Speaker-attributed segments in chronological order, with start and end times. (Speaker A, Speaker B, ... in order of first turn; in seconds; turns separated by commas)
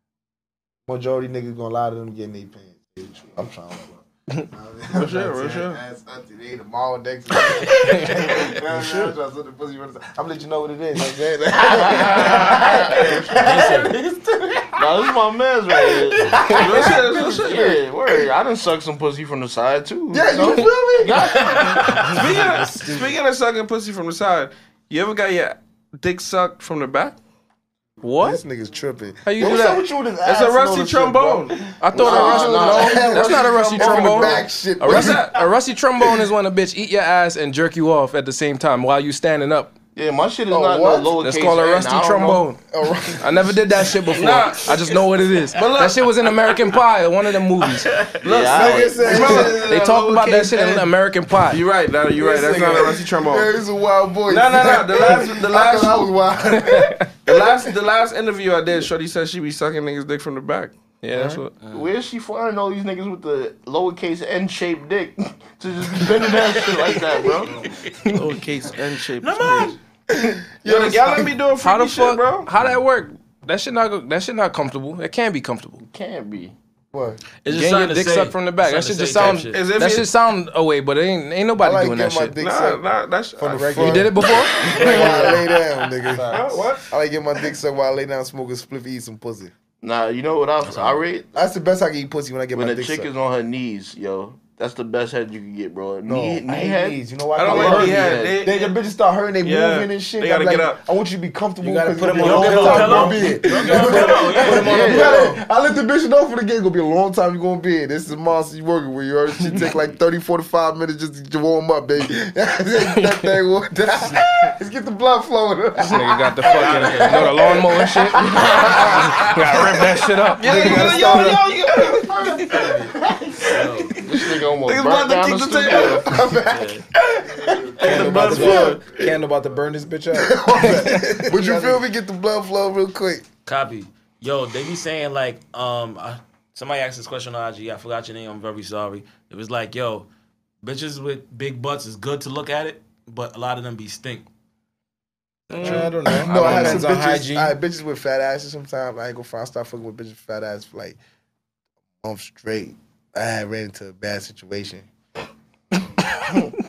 Speaker A: 0.9-15.1, Speaker B: 4.9-5.8, Speaker C: 7.7-8.5, Speaker D: 7.8-8.1, Speaker E: 11.6-13.3, Speaker C: 13.3-13.9, Speaker E: 14.8-22.2, Speaker A: 15.7-18.2, Speaker B: 16.5-17.8, Speaker A: 20.1-21.3, Speaker C: 21.2-22.2, Speaker B: 22.1-27.2, Speaker F: 22.1-23.1, Speaker D: 28.0-28.4, Speaker A: 28.2-35.4, Speaker D: 29.2-29.8, Speaker B: 30.2-31.6, Speaker D: 31.8-39.7, Speaker E: 31.9-34.4, Speaker B: 34.9-35.2, Speaker E: 39.9-42.5, Speaker A: 40.5-41.2, Speaker D: 41.2-42.6, Speaker A: 42.7-43.9, Speaker D: 43.2-47.9, Speaker B: 44.1-44.7, Speaker B: 45.5-46.1, Speaker C: 47.8-48.2, Speaker B: 48.2-50.9, Speaker E: 48.2-49.5, Speaker A: 48.5-49.7, Speaker D: 49.5-51.6, Speaker B: 51.4-53.5, Speaker A: 52.1-57.4, Speaker B: 54.3-56.0, Speaker D: 56.6-57.0, Speaker B: 57.2-60.7, Speaker D: 61.0-61.5, Speaker A: 61.1-61.4, Speaker C: 61.6-61.9, Speaker E: 61.7-67.7, Speaker C: 66.5-66.9, Speaker C: 67.6-68.2, Speaker B: 68.0-69.8, Speaker C: 69.2-69.8, Speaker A: 70.1-71.3, Speaker B: 70.6-72.5, Speaker D: 71.6-75.8, Speaker E: 75.8-76.5, Speaker A: 76.9-77.2, Speaker C: 77.4-79.6, Speaker D: 77.5-82.4, Speaker B: 79.4-80.1, Speaker A: 81.6-82.8, Speaker B: 82.4-84.1, Speaker A: 83.4-89.5, Speaker F: 83.5-84.1, Speaker D: 83.7-84.6, Speaker E: 84.6-85.3, Speaker B: 84.6-85.4, Speaker F: 86.2-86.5, Speaker B: 86.3-86.9, Speaker E: 89.8-91.3, Speaker C: 90.6-91.0, Speaker A: 91.3-93.1, Speaker E: 92.5-98.4, Speaker A: 96.0-119.6, Speaker B: 97.3-98.7, Speaker B: 99.4-100.8, Speaker F: 101.6-104.5, Speaker D: 101.9-103.0, Speaker C: 102.1-105.2, Speaker E: 104.2-105.3, Speaker D: 112.9-113.2, Speaker D: 115.8-121.4, Speaker C: 116.4-119.2, Speaker B: 120.4-121.9, Speaker F: 120.4-122.6, Speaker A: 120.4-122.7, Speaker C: 122.5-124.0, Speaker E: 124.0-126.1, Speaker B: 124.6-126.2, Speaker A: 125.9-129.0, Speaker C: 126.3-126.8, Speaker B: 127.8-129.1, Speaker F: 127.9-131.8, Speaker A: 130.1-133.2, Speaker C: 133.4-140.1, Speaker C: 140.6-144.2, Speaker B: 145.5-146.8, Speaker F: 145.6-147.5, Speaker A: 145.7-151.0, Speaker A: 152.0-154.9